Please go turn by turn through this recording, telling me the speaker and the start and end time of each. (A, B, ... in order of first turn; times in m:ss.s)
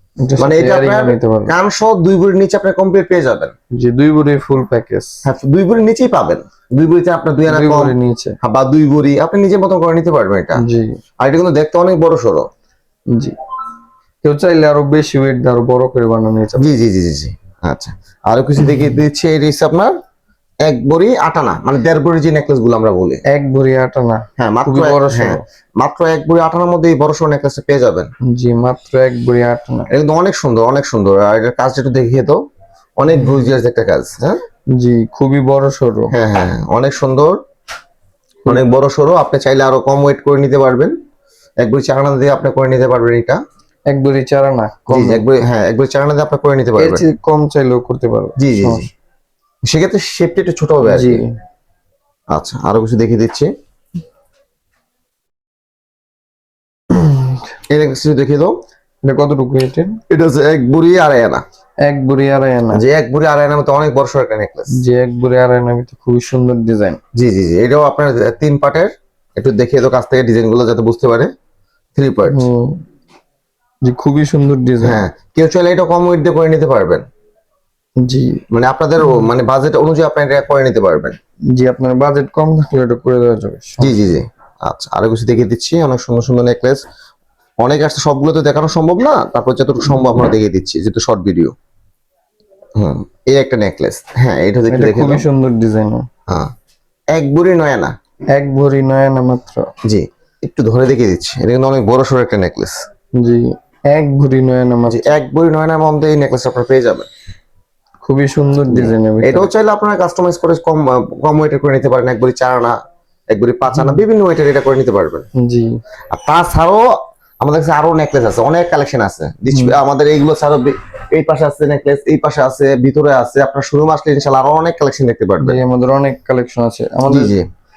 0:00.2-0:01.5 A
0:00.4-0:03.5 B
0:03.7-0:05.2 A
0:05.2-0:10.6 B
0:07.5-0:08.4 A
0:10.6-0:11.0 A
0:11.2-0:12.4 B
0:14.2-0:16.7 A
0:16.6-0:19.9 B
0:20.6-0:23.2 B
0:23.3-0:25.4 A
0:24.4-0:28.1 B
0:28.3-0:29.9 A
0:29.9-0:32.4 B
0:33.0-0:34.4 B
0:34.7-0:36.1 A
0:36.1-0:37.4 B
0:38.5-0:40.9 B
0:41.6-0:43.4 B
0:43.9-0:45.2 A
0:44.9-0:47.0 B
0:46.8-0:48.8 A
0:48.4-0:48.8 B
0:49.7-0:51.2 B
0:50.8-0:51.3 A
0:52.3-0:53.5 B
0:56.9-0:57.4 A
0:57.7-0:58.5 B
0:59.0-1:00.0 A
1:00.1-1:01.4 B
1:01.8-1:02.8 A
1:02.7-1:04.8 B
1:04.7-1:07.0 A
1:07.1-1:11.3 B
1:12.0-1:12.5 B
1:12.3-1:12.8 A
1:13.8-1:15.0 A
1:14.8-1:17.0 B
1:18.0-1:18.4 A
1:18.5-1:21.2 B
1:21.5-1:24.0 A
1:23.8-1:26.8 B
1:27.6-1:31.5 B
1:32.8-1:35.2 B
1:34.7-1:36.1 A
1:37.1-1:37.9 B
1:38.3-1:39.7 A
1:39.8-1:42.8 B
1:43.2-1:45.1 A
1:44.9-1:47.1 B
1:48.0-1:49.5 A
1:48.6-1:52.8 B
1:53.3-1:55.2 B
1:53.7-1:54.0 A
1:55.4-1:55.8 A
1:56.1-1:56.8 B
1:57.4-2:05.6 B
1:59.5-1:59.8 A
2:05.4-2:07.3 A
2:07.1-2:07.4 B